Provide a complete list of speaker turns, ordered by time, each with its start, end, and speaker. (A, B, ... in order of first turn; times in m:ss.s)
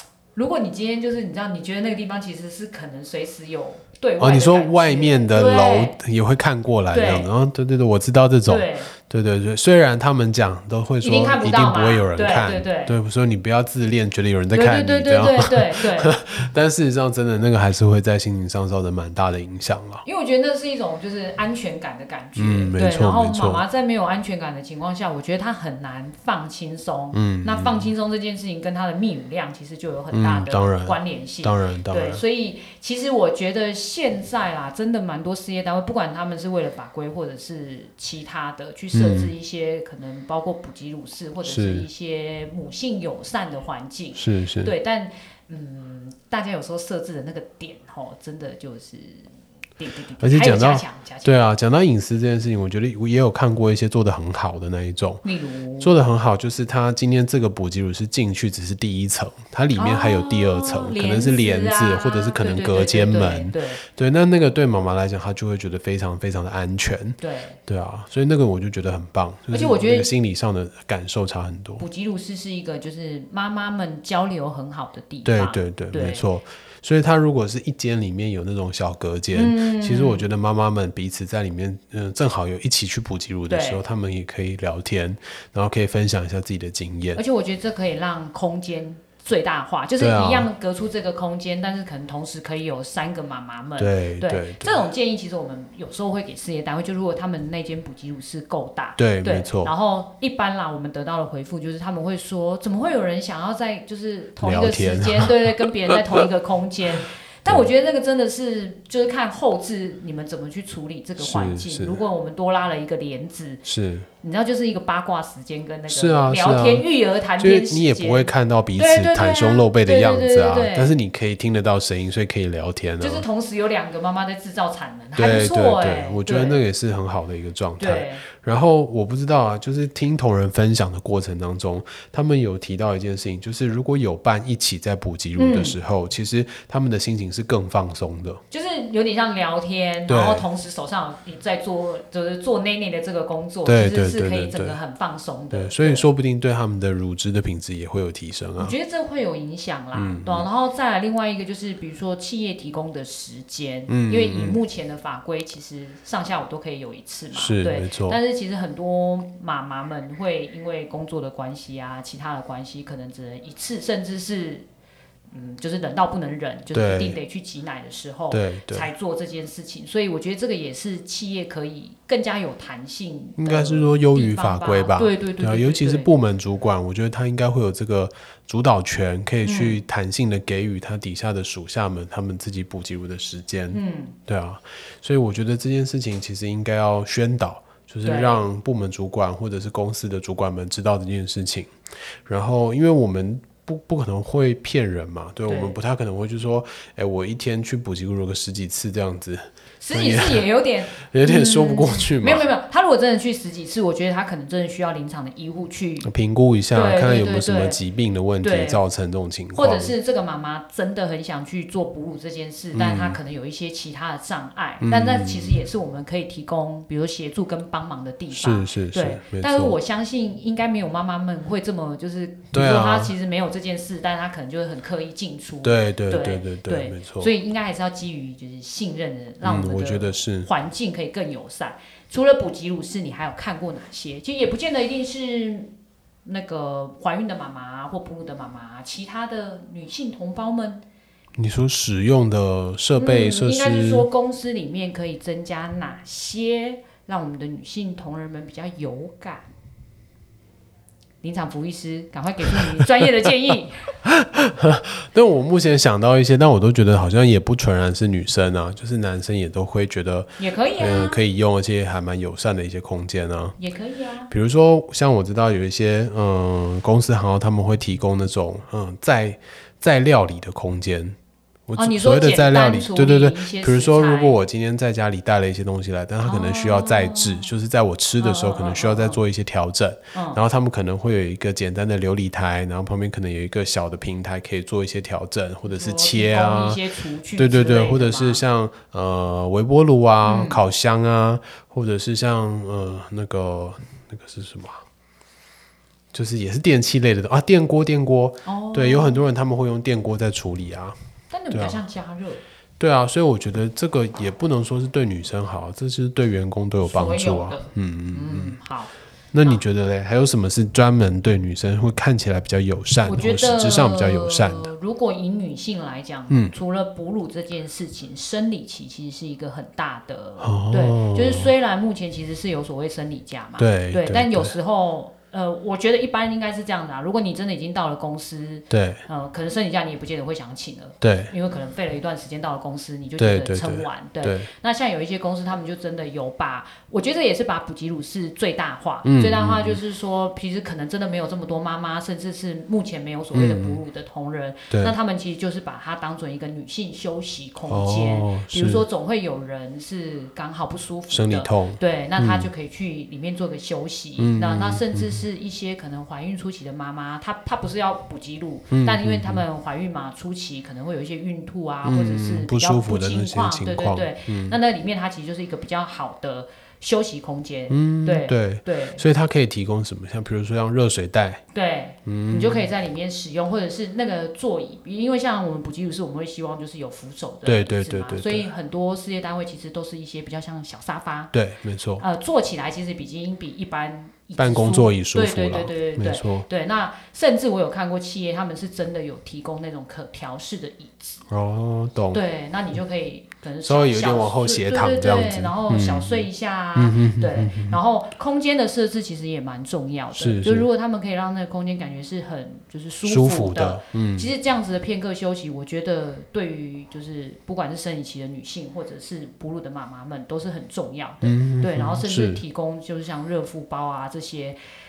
0:00.3-0:06.0 A
0:04.2-0:20.0 B
0:06.9-0:07.3 A
0:08.4-0:08.9 A
0:11.0-0:13.0 A
0:14.5-0:16.2 A
0:20.0-0:51.4 A
0:22.4-0:23.6 B
0:27.1-0:27.9 B
0:30.1-0:32.2 B
0:38.9-0:39.3 B
0:41.4-0:41.9 B
0:44.1-0:44.7 B
0:50.2-0:55.2 B
0:55.2-0:55.9 A
0:55.8-1:11.8 B
0:59.8-1:03.8 A
1:07.2-1:07.6 A
1:09.5-1:10.1 A
1:11.8-1:16.3 A
1:15.2-1:27.2 B
1:19.3-1:20.2 A
1:23.5-1:23.8 A
1:27.1-1:53.6 A
1:30.0-1:30.5 B
1:33.8-1:34.9 B
1:39.0-1:39.7 B
1:44.4-1:46.2 B
1:51.2-1:52.0 B
1:53.6-1:54.1 B
1:54.2-2:01.0 A
1:55.9-1:56.8 B
1:57.4-2:03.2 B
2:03.0-2:06.6 A
2:05.2-2:18.4 B
2:07.8-2:08.2 A
2:15.4-2:15.8 A
2:18.5-2:26.1 A
2:20.1-2:20.4 B
2:23.6-2:24.8 B
2:25.5-2:28.8 B
2:28.6-2:44.7 A
2:29.9-2:30.5 B
2:33.9-2:34.6 B
2:37.3-2:38.2 B
2:45.3-2:56.1 A
2:46.7-2:47.2 B
2:48.3-2:48.9 B
2:53.4-3:11.7 B
2:59.4-2:59.8 A
3:03.7-3:04.2 A
3:08.0-3:08.4 A
3:12.3-3:22.5 B
3:15.4-3:15.8 A
3:19.8-3:26.1 A
3:26.0-3:29.9 B
3:26.7-3:27.8 A
3:28.4-3:28.8 A
3:29.5-3:55.7 A
3:32.7-3:33.2 B
3:34.8-3:35.6 B
3:38.3-3:39.8 B
3:42.5-3:43.1 B
3:45.6-3:47.3 B
3:49.4-3:50.5 B
3:56.2-4:00.8 A
4:01.4-4:04.1 B
4:03.0-4:09.5 A
4:11.2-4:13.9 A
4:14.0-4:23.6 B
4:20.4-4:21.2 A
4:23.6-4:24.3 A
4:24.3-4:31.2 B
4:31.7-4:46.8 B
4:31.7-4:34.4 A
4:36.2-4:37.5 A
4:38.2-4:39.2 A
4:40.1-4:40.4 A
4:45.6-4:48.4 A
4:47.4-4:54.8 B
4:50.2-4:50.6 A
4:56.1-5:01.0 B
4:58.4-4:59.2 A
5:01.3-5:02.4 A
5:01.5-5:01.8 B
5:02.8-5:08.6 B
5:06.8-5:08.9 A
5:09.3-5:14.7 B
5:13.0-6:09.0 A
5:20.4-5:21.5 B
5:23.6-5:24.5 B
5:28.7-5:29.0 B
5:31.0-5:31.3 B
5:33.2-5:34.5 B
5:39.0-5:39.8 B
5:43.3-5:43.8 B
5:44.7-5:45.0 B
5:47.7-5:48.8 B
5:51.1-5:52.5 B
5:54.2-5:55.2 B
5:58.7-5:59.4 B
6:01.8-6:04.6 B
6:07.7-6:11.4 B
6:11.5-6:21.3 A
6:12.0-6:12.7 B
6:17.4-6:18.5 B
6:21.3-6:22.0 B
6:22.0-6:31.2 A
6:24.4-6:26.4 B
6:31.3-6:32.2 B
6:32.1-6:54.6 A
6:33.6-6:37.8 B
6:40.2-6:40.7 B
6:43.0-6:44.3 B
6:51.2-6:52.4 B